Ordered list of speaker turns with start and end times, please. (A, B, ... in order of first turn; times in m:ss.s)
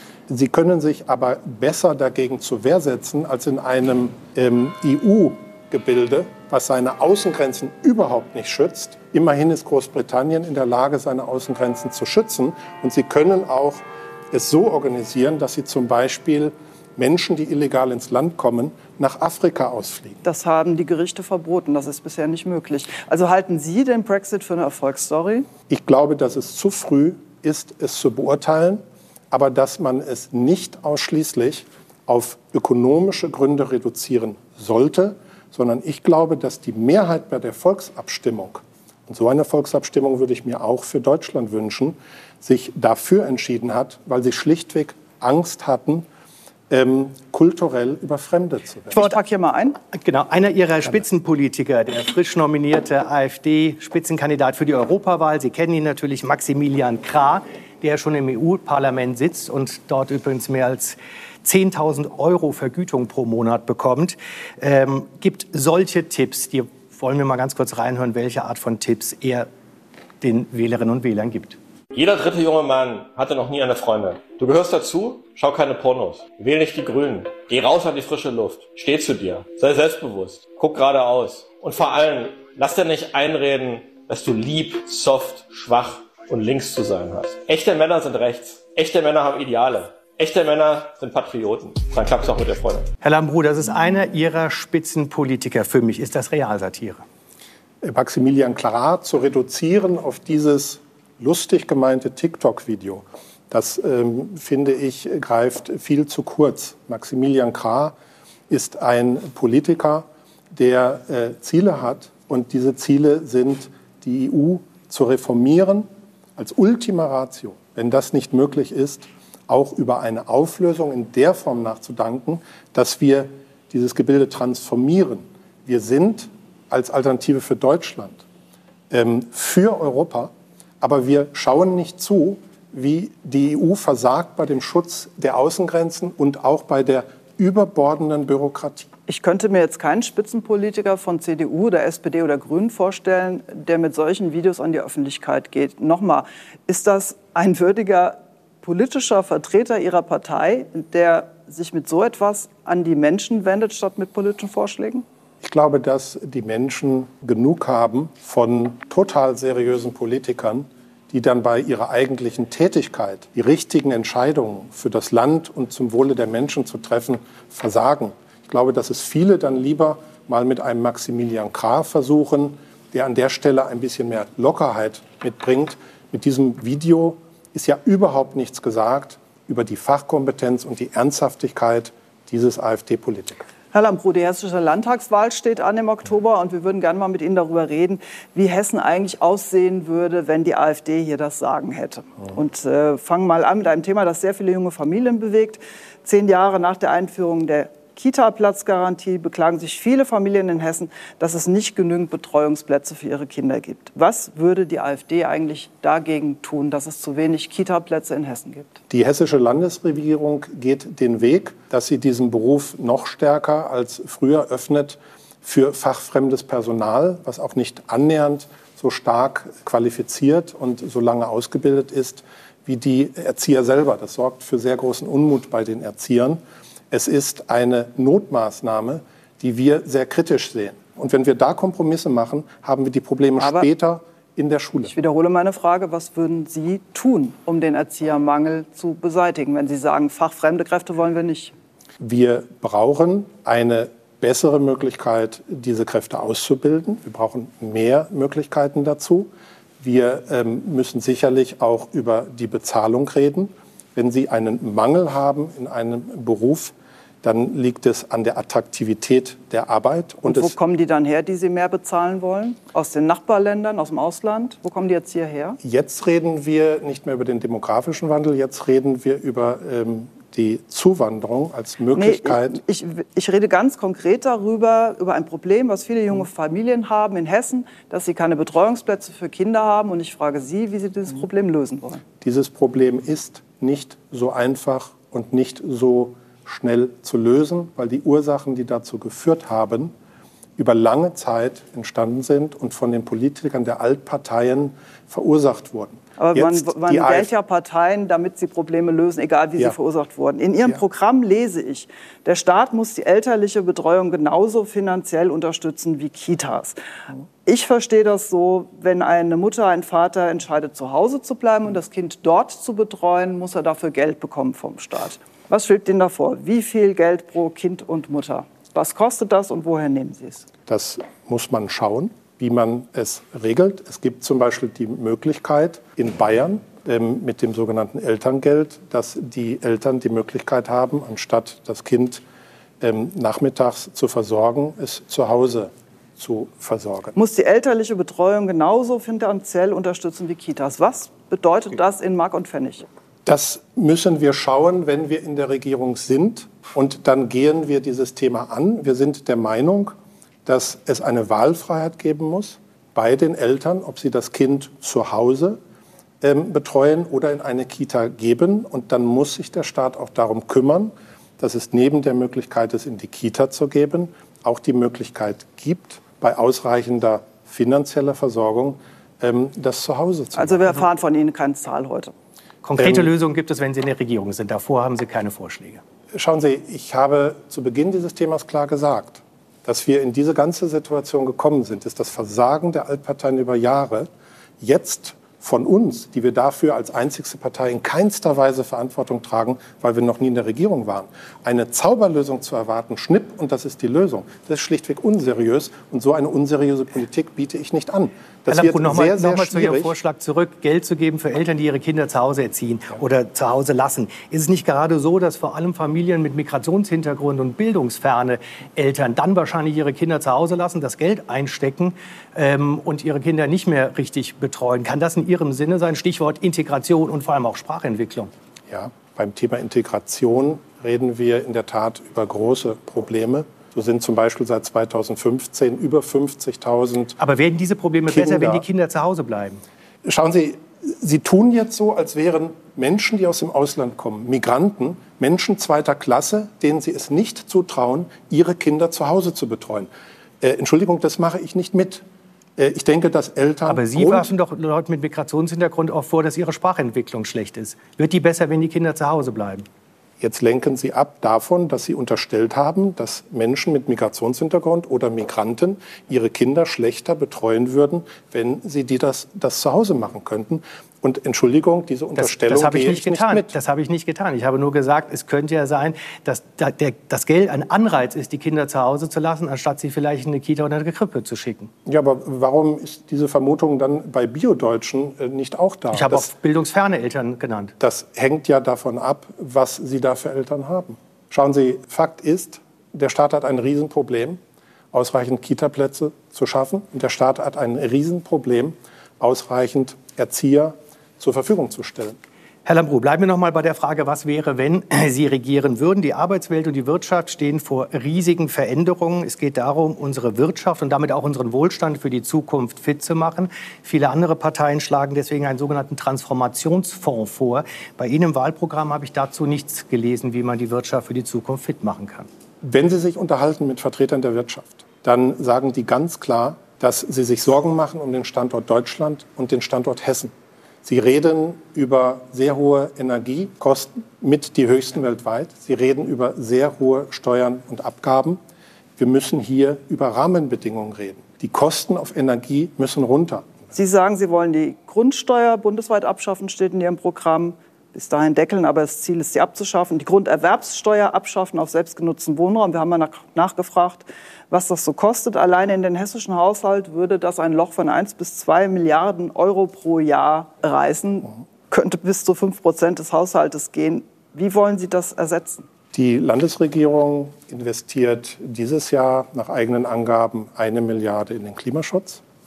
0:00.3-0:20.2 A
0:20.2-0:25.5 B
0:25.7-0:46.1 A
0:46.7-0:49.1 A
0:48.9-0:49.8 B
0:49.9-1:09.5 C
1:10.2-1:11.6 C
1:11.9-1:32.9 D
1:33.0-1:37.0 C
1:37.8-1:47.9 A
1:48.5-2:08.2 A
2:08.9-2:18.9 A
2:19.1-2:35.0 B
2:35.4-3:03.4 A
3:03.7-3:28.8 B
3:28.9-3:46.4 A
3:46.9-3:54.9 A
3:53.4-3:53.7 B
3:54.9-4:01.5 B
4:02.0-4:20.5 A
4:20.2-4:25.6 B
4:25.6-4:32.6 A
4:31.9-4:42.0 B
4:42.2-4:49.9 A
4:50.6-4:57.3 A
4:56.2-5:06.8 B
5:07.4-5:20.5 B
5:20.7-5:32.2 A
5:32.8-5:37.2 A
5:37.1-5:42.9 B
5:43.2-5:55.6 A
5:56.2-6:10.8 A
6:10.3-6:12.1 B
6:12.6-6:15.8 C
6:12.8-6:13.1 A
6:16.1-6:24.1 A
6:24.6-6:39.9 A
6:38.5-6:58.3 C
6:58.7-7:07.2 A
7:07.2-7:09.6 C
7:08.1-7:08.6 A
7:10.0-7:19.9 A
7:20.4-7:22.0 A
7:22.6-7:24.3 A
7:23.6-7:29.7 C
7:30.2-7:43.5 A
7:42.2-7:51.7 C
7:51.8-7:56.3 A
7:55.9-7:57.7 C
7:57.8-8:04.4 A
8:04.9-8:12.2 A
8:12.6-8:32.3 C
8:32.6-8:40.3 A
8:40.8-8:48.4 A
8:49.0-8:53.7 A
8:53.7-9:15.7 B
9:15.9-9:22.2 A